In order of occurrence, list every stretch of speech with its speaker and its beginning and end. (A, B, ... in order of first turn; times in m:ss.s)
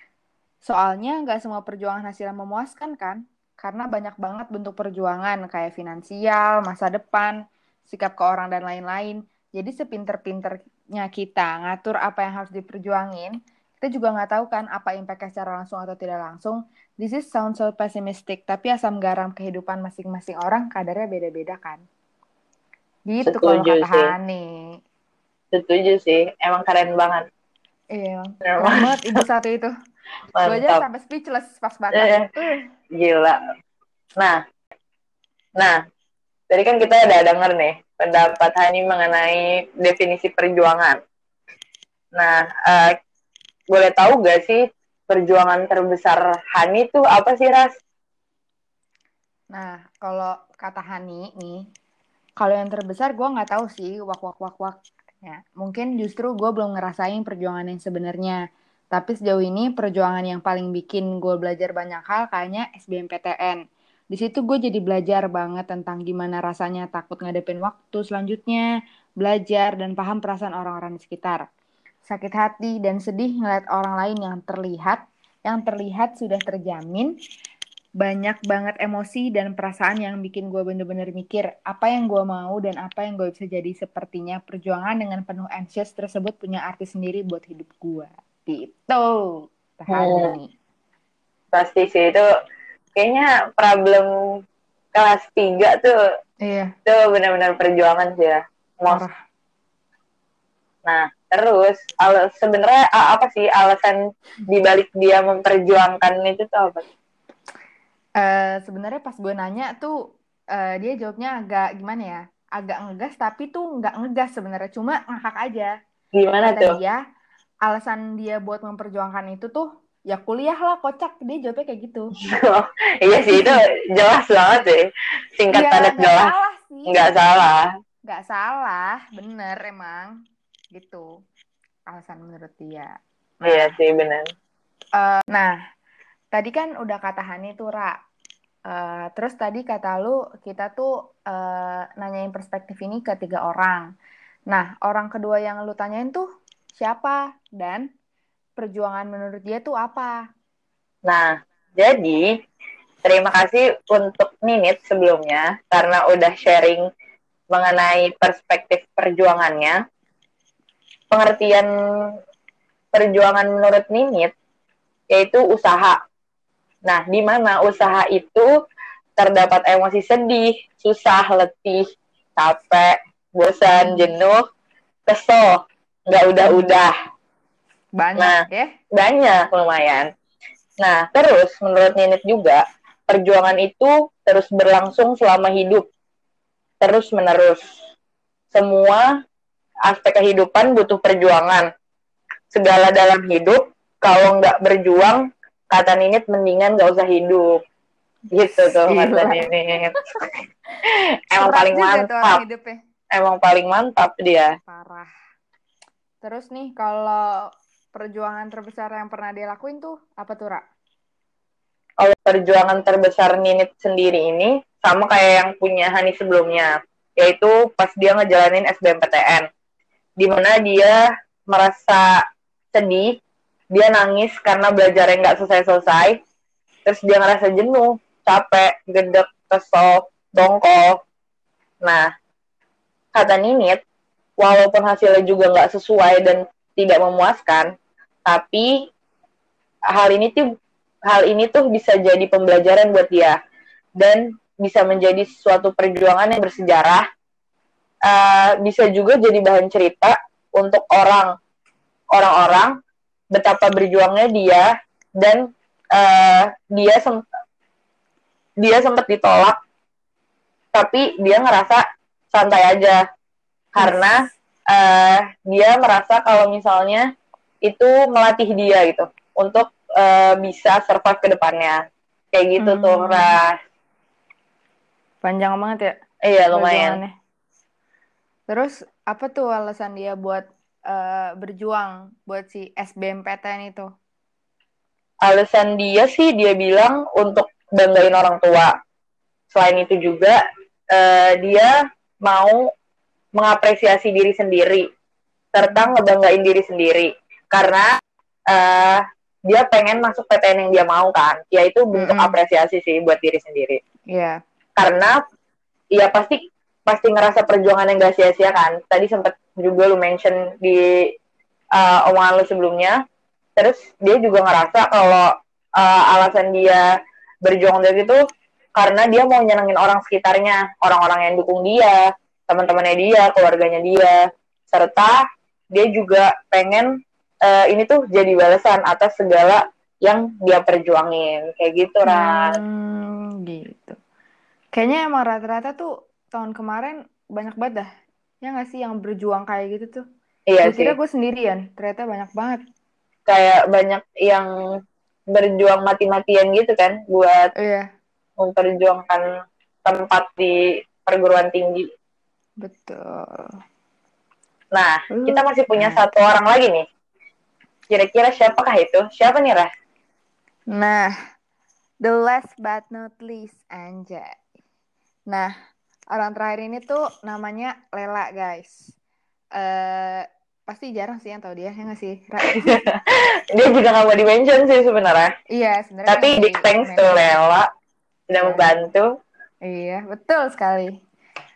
0:00.6-0:21.8 A
0:23.1-0:24.5 A
0:23.2-0:24.1 B
0:25.5-0:27.2 B
0:27.9-0:29.7 A
0:28.4-0:29.0 B
0:30.4-0:30.8 B
0:30.4-0:32.6 A
0:32.0-0:32.3 B
0:33.0-0:33.4 B
0:36.5-0:41.0 B
0:42.2-0:43.0 B
0:43.7-0:47.7 B
0:49.5-0:51.6 A
0:52.4-0:58.4 A
0:58.9-1:03.6 A
1:04.1-1:08.7 A
1:09.2-1:11.5 A
1:12.1-1:17.1 A
1:18.0-1:30.5 A
1:29.9-1:30.3 B
1:31.5-1:32.2 B
1:33.0-1:34.1 B
1:34.9-1:36.0 B
1:36.5-1:36.7 A
1:36.9-1:39.0 B
1:38.9-1:39.2 A
1:40.9-1:46.8 B
1:48.2-1:50.0 A
1:50.6-1:55.7 A
1:56.2-1:56.8 B
1:56.4-1:57.0 A
1:57.6-2:02.1 A
2:02.3-2:04.9 B
2:03.3-2:03.6 A
2:05.4-2:06.3 B
2:05.5-2:07.0 A
2:06.9-2:07.6 B
2:08.1-2:10.1 A
2:10.7-2:11.1 A
2:11.9-2:13.8 A
2:13.4-2:14.3 B
2:15.0-2:15.6 A
2:16.3-2:18.0 A
2:18.7-2:23.9 A
2:24.5-2:26.2 A
2:26.8-2:27.9 A
2:28.6-2:30.2 A
2:31.1-2:32.2 B
2:33.0-2:36.9 B
2:37.5-2:39.8 B
2:41.1-2:41.7 B
2:42.9-2:44.3 B
2:45.1-2:46.0 B
2:46.9-2:48.5 B
2:49.2-2:51.8 B
2:52.4-2:54.4 B
2:53.8-2:54.1 A
2:55.1-2:56.9 B
2:56.4-2:56.7 A
2:58.0-2:58.7 A
2:58.9-3:00.1 B
3:00.8-3:05.9 B
3:06.8-3:07.6 B
3:08.5-3:09.1 B
3:09.9-3:11.7 B
3:12.5-3:17.6 B
3:18.3-3:20.0 B
3:18.4-3:19.4 A
3:20.9-3:22.4 B
3:21.4-3:22.8 A
3:23.1-3:24.5 B
3:24.7-3:25.1 A
3:26.2-3:27.3 A
3:28.0-3:30.6 A
3:32.0-3:39.5 B
3:40.2-3:42.1 B
3:42.7-3:43.1 B
3:43.7-3:46.2 B
3:46.8-3:51.0 B
3:53.2-3:53.8 B
3:54.4-3:57.7 B
3:58.3-3:58.7 B
3:59.9-4:00.4 B
4:01.1-4:03.4 B
4:04.0-4:07.0 B
4:08.1-4:11.3 B
4:12.2-4:12.8 B
4:13.3-4:14.7 B
4:15.2-4:17.2 B
4:18.6-4:19.6 B
4:20.7-4:23.0 B
4:23.8-4:24.2 B
4:23.8-4:24.3 A
4:24.7-4:27.1 B
4:27.7-4:31.8 B
4:32.3-4:33.6 B
4:32.6-4:33.3 A
4:35.2-4:35.9 A
4:36.2-4:37.0 B
4:36.5-4:37.1 A
4:38.5-4:43.9 A
4:45.2-4:48.7 B
4:49.5-4:50.4 B
4:50.9-4:51.7 B
4:52.2-4:52.6 B
4:53.4-4:54.9 B
4:55.5-4:57.9 B
4:55.6-4:56.0 A
4:58.5-5:03.8 B
5:01.9-5:02.4 A
5:04.1-5:04.4 A
5:04.8-5:05.2 B
5:06.0-5:10.9 B
5:11.8-5:13.0 B
5:13.6-5:16.8 B
5:17.4-5:18.2 B
5:18.8-5:22.0 B
5:22.5-5:24.2 B
5:24.7-5:25.2 B
5:25.7-5:26.9 B
5:27.5-5:32.5 B
5:32.1-5:34.0 A
5:34.8-5:37.9 A
5:38.4-5:40.0 A
5:40.5-5:41.0 B
5:40.6-5:42.6 A
5:43.3-5:44.5 B
5:45.3-5:47.5 B
5:47.6-5:47.9 A
5:48.4-5:49.2 B
5:49.8-5:51.9 B
5:52.6-5:53.5 A
5:54.7-5:56.8 B
5:55.1-5:56.0 A
5:57.9-5:59.7 B
6:00.7-6:01.1 A
6:02.0-6:04.3 A
6:06.1-6:08.9 A
6:09.6-6:12.7 A
6:12.5-6:15.3 B
6:15.5-6:17.1 A
6:16.1-6:17.6 B
6:18.3-6:19.1 B
6:18.4-6:18.7 A
6:19.7-6:20.9 A